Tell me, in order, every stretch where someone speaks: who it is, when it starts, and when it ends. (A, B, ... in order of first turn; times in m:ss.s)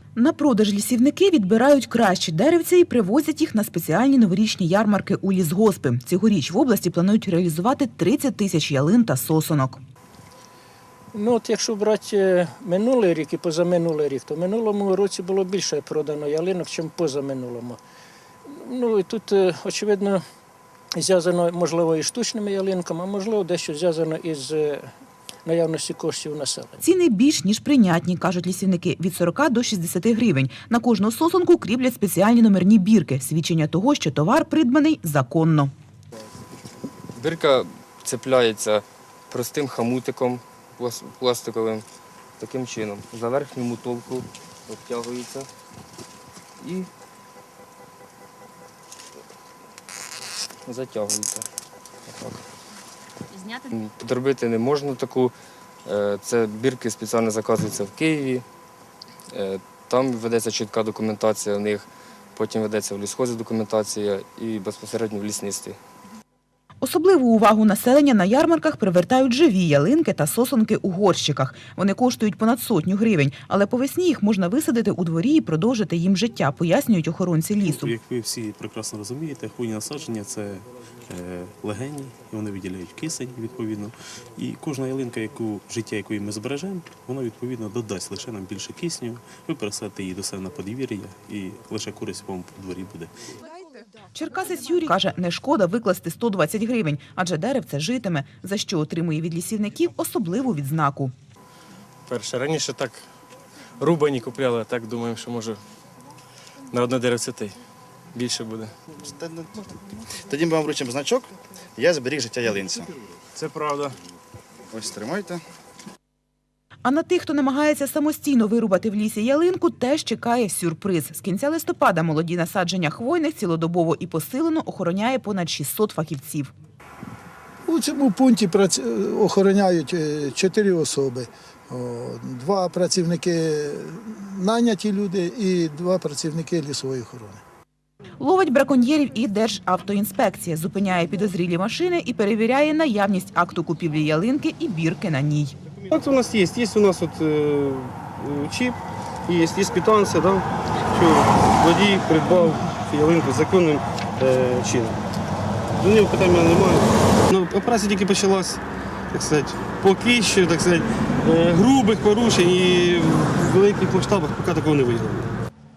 0:00.2-0:09.8 A
0:11.1-0:17.8 B
0:18.5-0:20.2 B
0:21.0-0:24.9 B
0:25.4-0:26.8 B
0:26.8-0:35.7 A
0:37.2-0:41.8 C
0:42.4-0:45.5 C
0:46.6-0:46.9 C
0:50.6-0:51.4 C
0:52.1-0:52.4 C
0:53.7-0:55.3 C
0:55.9-0:58.4 C
0:59.3-1:05.8 C
1:06.8-1:18.0 A
1:17.6-1:33.2 D
1:34.1-1:41.1 A
1:42.1-1:43.0 E
1:43.8-1:45.6 E
1:46.7-1:47.6 E
1:48.1-1:48.8 E
1:49.0-1:49.7 F
1:50.2-1:52.9 F
1:53.4-1:53.9 E
1:54.7-1:55.4 F
1:56.8-2:06.5 A
2:07.7-2:17.4 G
2:18.2-2:25.6 A
2:25.9-2:35.0 H
2:35.8-2:38.6 H
2:39.1-2:45.3 H